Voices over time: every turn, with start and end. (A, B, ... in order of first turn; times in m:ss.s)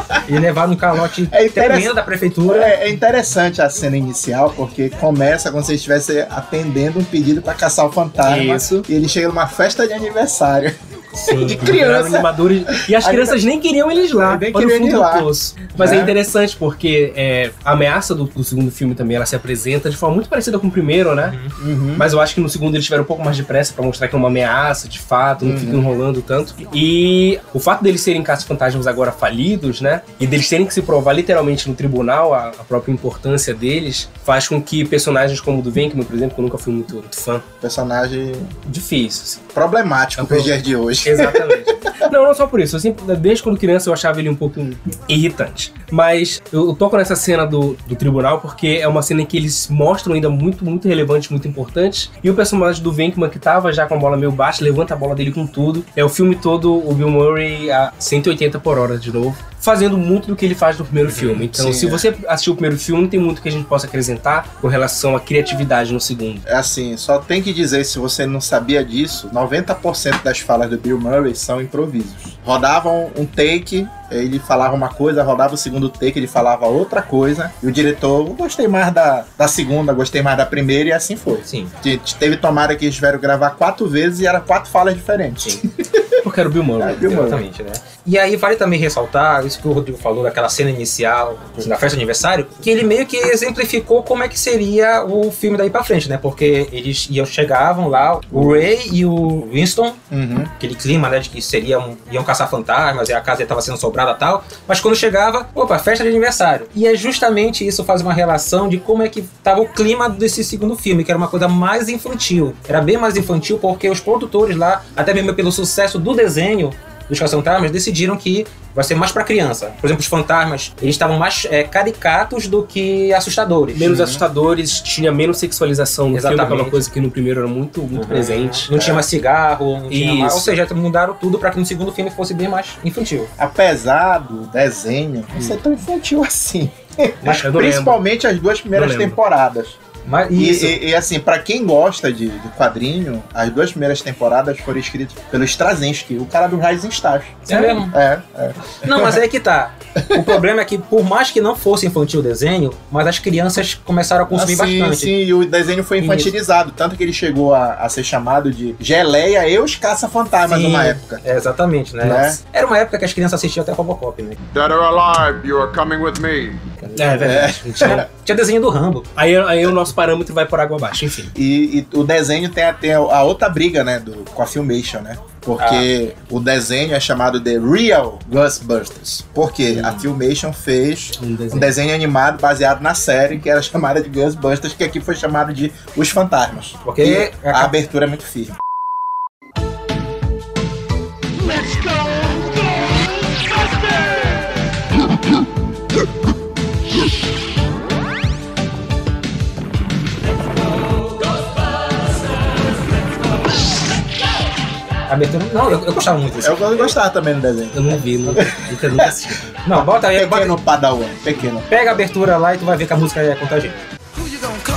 0:00.2-0:02.8 A
0:01.1-0:01.9 B
0:02.5-0:13.4 B
0:08.2-0:08.9 C
0:11.2-0:11.8 A
0:11.6-0:21.4 C
0:14.2-0:16.1 B
0:21.2-0:21.5 A
0:21.6-0:22.1 B
0:22.0-0:37.4 C
0:25.4-0:25.9 B
0:37.6-0:38.5 B
0:38.6-0:39.4 C
0:39.5-0:41.9 B
0:40.2-1:06.4 C
1:01.1-1:01.4 A
1:01.5-1:02.1 B
1:06.4-1:26.2 B
1:21.5-1:21.7 A
1:26.2-1:27.0 C
1:26.8-1:27.4 B
1:27.0-1:40.0 A
1:38.3-1:38.7 B
1:40.1-1:40.5 B
1:40.6-2:03.9 A
2:03.7-2:08.7 C
2:03.8-2:04.2 B
2:06.1-2:06.8 A
2:07.9-2:13.3 A
2:08.7-2:09.0 B
2:09.9-2:10.5 C
2:13.4-2:19.8 B
2:17.2-2:17.6 A
2:17.4-2:18.0 C
2:18.7-2:19.2 C
2:20.0-2:20.8 A
2:20.3-2:29.2 B
2:27.4-2:27.9 A
2:27.5-2:27.8 C
2:28.8-2:35.1 A
2:30.0-2:30.4 B
2:34.3-2:41.2 B
2:40.5-2:44.4 A
2:42.0-2:42.4 B
2:44.5-2:46.7 D
2:46.8-2:49.1 A
2:46.9-2:48.0 C
2:47.2-2:48.0 B
2:49.2-2:51.3 C
2:51.3-3:08.6 B
2:55.6-2:55.9 A
2:59.7-3:00.0 A
3:01.2-3:01.7 C
3:06.8-3:07.7 A
3:25.1-3:27.0 A
3:26.4-3:29.1 B
3:27.7-3:29.5 C
3:29.6-3:30.6 A
3:29.7-3:32.0 B
3:31.7-3:33.9 A